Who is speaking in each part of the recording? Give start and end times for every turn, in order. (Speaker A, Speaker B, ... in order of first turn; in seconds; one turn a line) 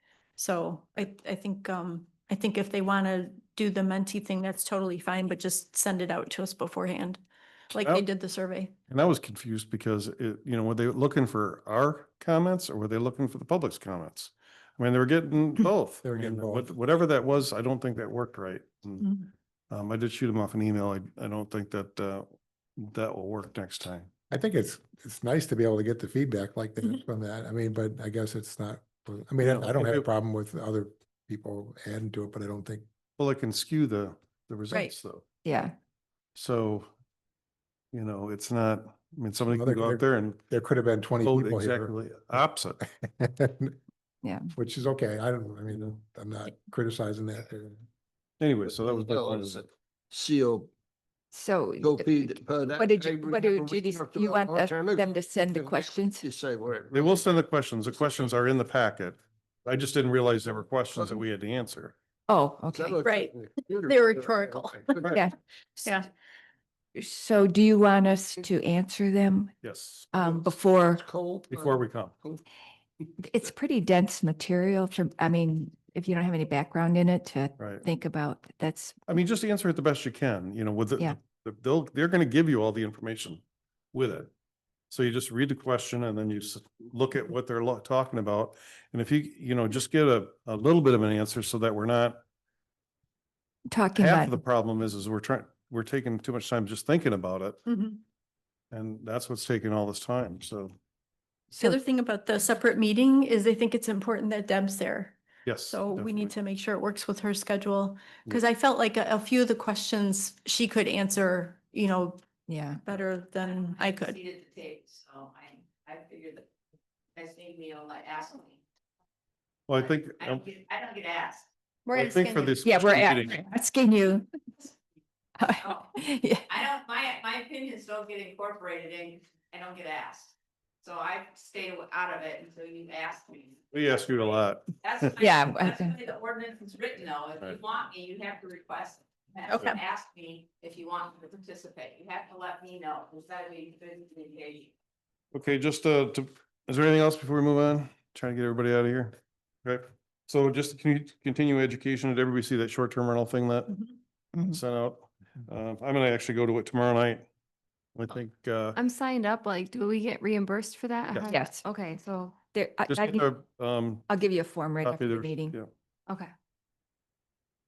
Speaker A: 0.4-7.2
Speaker A: 7.7-8.7
Speaker B: 7.8-8.1
Speaker B: 8.9-19.1
Speaker C: 16.0-16.7
Speaker A: 19.0-19.2
Speaker B: 19.7-24.1
Speaker C: 24.3-32.8
Speaker B: 29.4-30.1
Speaker B: 33.2-35.2
Speaker D: 35.4-35.7
Speaker B: 36.3-36.9
Speaker B: 37.9-40.4
Speaker C: 39.5-43.8
Speaker B: 41.2-42.8
Speaker D: 44.2-44.5
Speaker C: 44.5-47.8
Speaker B: 48.4-49.6
Speaker E: 48.7-50.7
Speaker D: 51.3-56.2
Speaker E: 51.8-57.3
Speaker B: 56.9-61.9
Speaker D: 62.3-63.0
Speaker E: 62.7-65.1
Speaker A: 63.0-65.0
Speaker D: 65.0-66.0
Speaker D: 66.9-69.5
Speaker B: 69.6-70.1
Speaker D: 70.1-71.0
Speaker E: 70.2-72.4
Speaker B: 71.5-72.1
Speaker D: 73.2-79.2
Speaker B: 77.6-77.8
Speaker B: 79.1-83.4
Speaker B: 83.9-84.3
Speaker B: 84.9-92.2
Speaker D: 93.7-94.4
Speaker B: 94.0-97.6
Speaker A: 97.7-98.0
Speaker B: 98.7-100.7
Speaker A: 101.5-112.2
Speaker B: 105.4-106.3
Speaker D: 112.5-112.8
Speaker A: 112.8-114.2
Speaker F: 113.6-116.5
Speaker F: 117.1-118.6
Speaker B: 119.7-120.4
Speaker F: 120.2-121.4
Speaker A: 121.8-122.6
Speaker B: 121.9-123.4
Speaker D: 122.6-124.3
Speaker D: 125.4-126.5
Speaker F: 126.5-133.8
Speaker B: 133.7-135.1
Speaker F: 134.8-144.7
Speaker D: 135.2-136.0
Speaker A: 139.5-139.8
Speaker B: 145.3-153.8
Speaker B: 154.3-157.2
Speaker B: 157.9-158.8
Speaker G: 158.7-162.4
Speaker D: 161.2-161.6
Speaker D: 162.4-163.3
Speaker B: 162.9-164.1
Speaker D: 164.1-165.6
Speaker B: 164.8-165.7